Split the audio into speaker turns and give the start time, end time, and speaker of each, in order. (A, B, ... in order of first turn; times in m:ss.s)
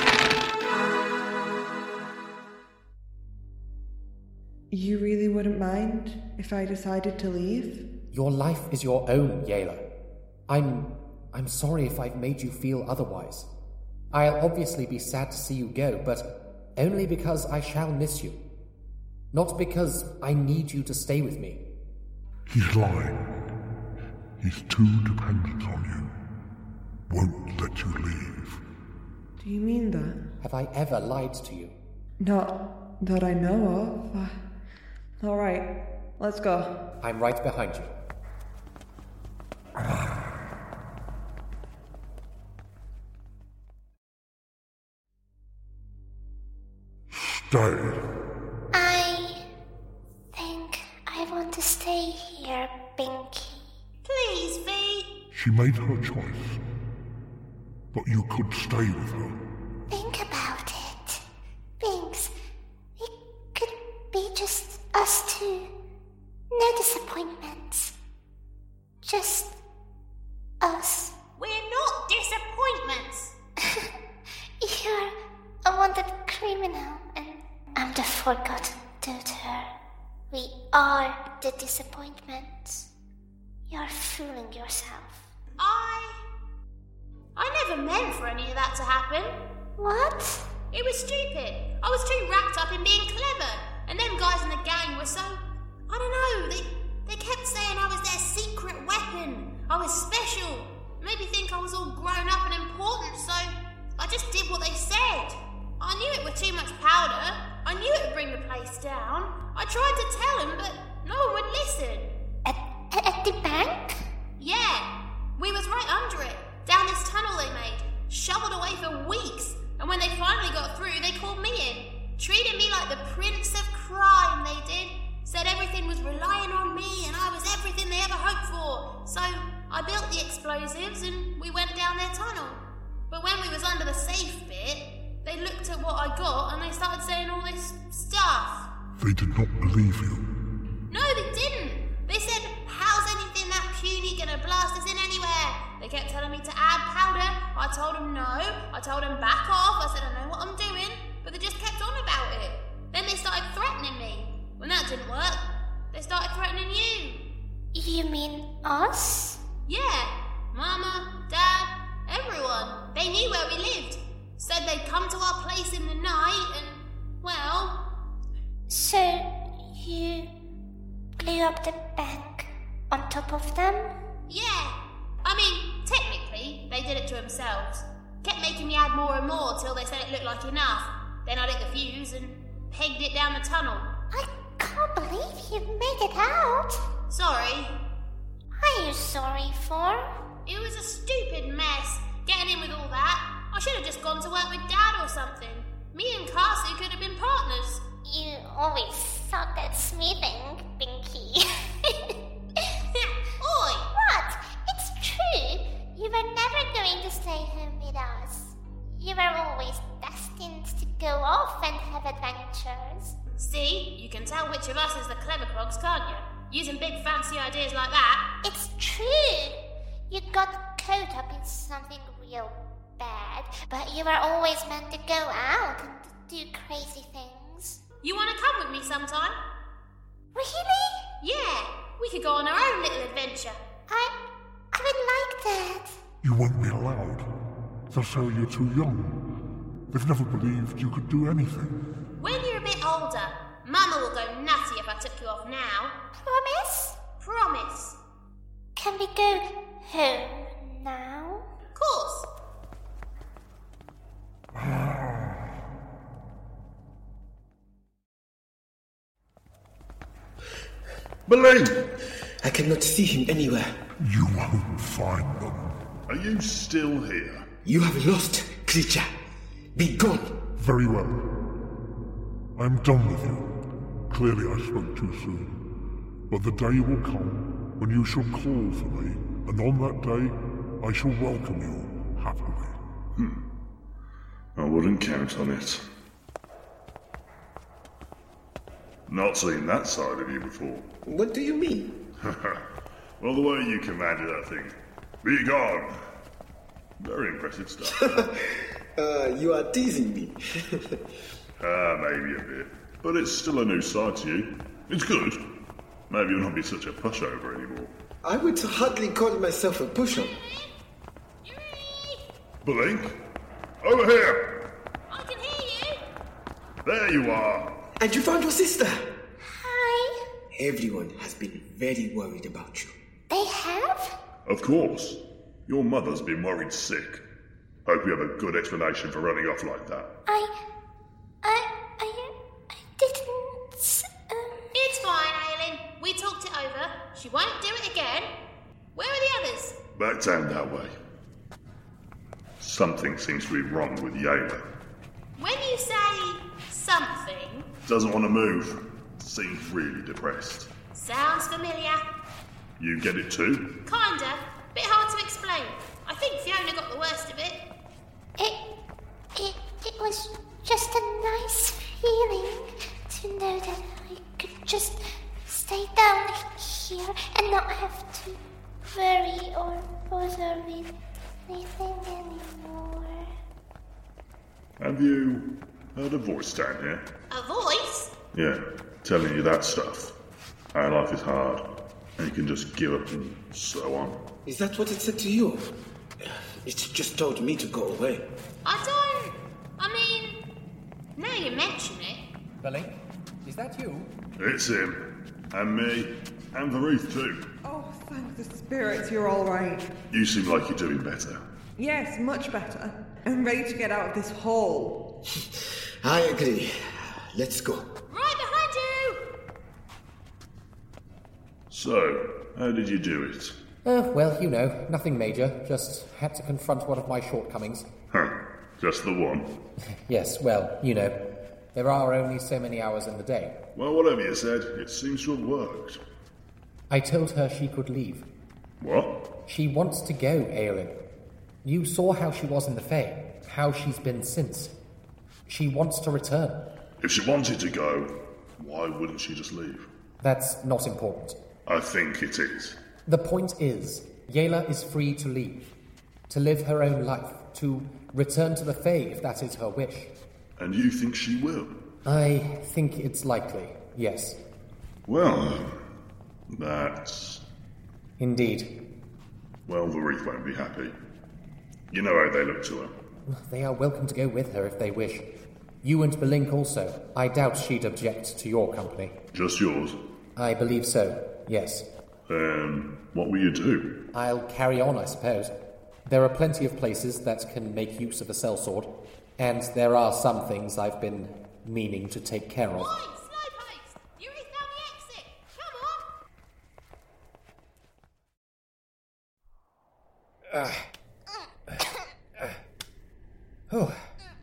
0:04.7-0:07.9 A
0:08.1-0:09.9 B
0:10.5-0:13.5 B
0:14.1-0:18.4 B
0:19.3-0:21.7 B
0:22.5-0:23.5 C
0:24.4-0:26.2 C
0:27.1-0:28.6 C
0:29.4-0:30.3 A
0:30.4-0:31.8 B
0:32.2-0:34.4 A
0:35.2-0:36.8 A
0:37.0-0:37.9 B
0:47.1-0:48.1 C
0:48.7-0:49.5 D
0:50.3-0:53.7 D
0:54.0-0:55.2 E
0:55.3-0:56.6 C
0:57.9-0:59.4 C
0:59.9-1:01.2 D
1:01.8-1:02.3 D
1:03.0-1:05.8 D
1:06.5-1:08.0 D
1:09.0-1:09.6 D
1:10.6-1:11.2 D
1:11.4-1:13.3 E
1:13.6-1:13.9 D
1:14.6-1:19.7 D
1:20.3-1:22.9 D
1:23.7-1:25.2 D
1:25.6-1:26.2 E
1:27.4-1:29.4 E
1:29.8-1:30.5 D
1:30.7-1:52.1 E
1:52.4-1:54.0 D
1:54.4-2:18.7 E
2:19.0-2:20.3 C
2:20.9-2:37.3 E
2:37.7-2:39.4 D
2:39.7-2:47.9 E
2:48.7-2:50.4 D
2:51.2-2:54.0 D
2:54.3-3:04.0 E
3:04.1-3:06.9 D
3:07.1-3:07.8 E
3:08.6-3:10.1 D
3:10.5-3:17.9 E
3:18.0-3:22.8 D
3:23.4-3:23.9 E
3:23.9-3:33.2 D
3:33.4-3:38.3 E
3:38.4-3:47.8 D
3:48.0-3:49.4 E
3:50.4-3:51.1 D
3:51.2-3:53.6 E
3:53.9-3:54.2 D
3:54.7-3:56.0 D
3:56.2-3:57.3 C
3:57.9-3:59.2 C
3:59.9-4:01.8 C
4:02.2-4:06.0 E
4:06.2-4:07.0 D
4:07.2-4:08.0 E
4:08.8-4:11.4 D
4:11.8-4:12.3 E
4:14.5-4:15.5 C
4:21.3-4:21.8 F
4:22.4-4:23.7 G
4:24.0-4:25.8 C
4:26.1-4:27.5 F
4:27.6-4:29.2 G
4:29.8-4:30.4 G
4:30.6-4:31.3 C
4:32.6-4:33.5 C
4:34.1-4:35.6 C
4:36.3-4:42.8 C
4:43.2-4:43.4 F
4:44.6-4:45.8 F
4:49.1-4:50.9 F
4:51.1-4:52.0 G
4:52.2-4:52.6 F
4:53.2-4:56.0 F
4:57.0-4:58.1 F
4:57.8-5:01.0 G
5:01.6-5:05.4 F
5:06.1-5:07.9 F
5:08.2-5:10.4 G
5:10.4-5:10.7 E
5:11.4-5:12.3 E
5:12.6-5:13.2 F
5:13.8-5:14.5 F
5:15.1-5:16.1 E
5:16.8-5:17.7 F
5:18.0-5:19.1 G
5:19.4-5:20.2 D
5:20.5-5:22.9 G
5:23.3-5:24.2 D
5:24.5-5:27.2 F
5:27.9-5:30.1 F
5:30.3-5:30.6 D
5:31.4-5:34.8 D
5:34.7-5:38.3 E
5:39.0-5:39.8 E
5:40.0-5:40.9 F
5:42.6-5:44.6 F
5:45.4-5:47.7 E
5:47.9-5:50.7 F
5:50.9-5:52.0 E
5:52.8-5:53.8 F
5:53.9-5:57.6 E
5:59.4-6:10.9 D
6:11.5-6:13.3 D
6:14.8-6:17.0 F
6:17.3-6:18.1 E
6:18.3-6:20.1 F
6:20.7-6:21.6 F
6:22.2-6:24.2 F
6:24.5-6:28.3 G
6:28.6-6:30.4 E
6:31.2-6:32.3 E
6:32.6-6:34.2 B
6:34.4-6:37.5 F
6:37.6-6:39.9 A
6:40.1-6:41.4 F
6:41.8-6:45.1 A
6:46.0-6:47.9 G
6:48.1-6:49.3 E
6:51.7-6:53.6 F
6:53.8-6:57.9 B
6:58.1-6:59.6 F
7:00.1-7:03.6 B
7:03.8-7:06.0 F
7:06.9-7:08.3 B
7:08.8-7:09.2 F
7:09.5-7:11.0 B
7:11.6-7:14.7 B
7:15.5-7:16.7 B
7:17.0-7:19.9 F
7:20.2-7:21.4 B
7:21.7-7:22.8 F
7:23.1-7:25.7 B
7:26.3-7:30.1 B
7:30.6-7:31.8 F
7:32.0-7:34.4 B
7:35.1-7:35.8 F
7:36.5-7:37.4 F
7:38.2-7:38.8 B
7:39.7-7:40.9 F
7:41.9-7:42.9 F
7:43.3-7:45.3 B
7:45.8-7:49.2 B
7:49.3-7:50.0 F
7:50.4-7:51.9 B
7:52.3-7:54.0 F
7:54.1-8:02.9 B
8:02.8-8:06.1 E
8:10.5-8:10.9 B
8:13.7-8:14.0 B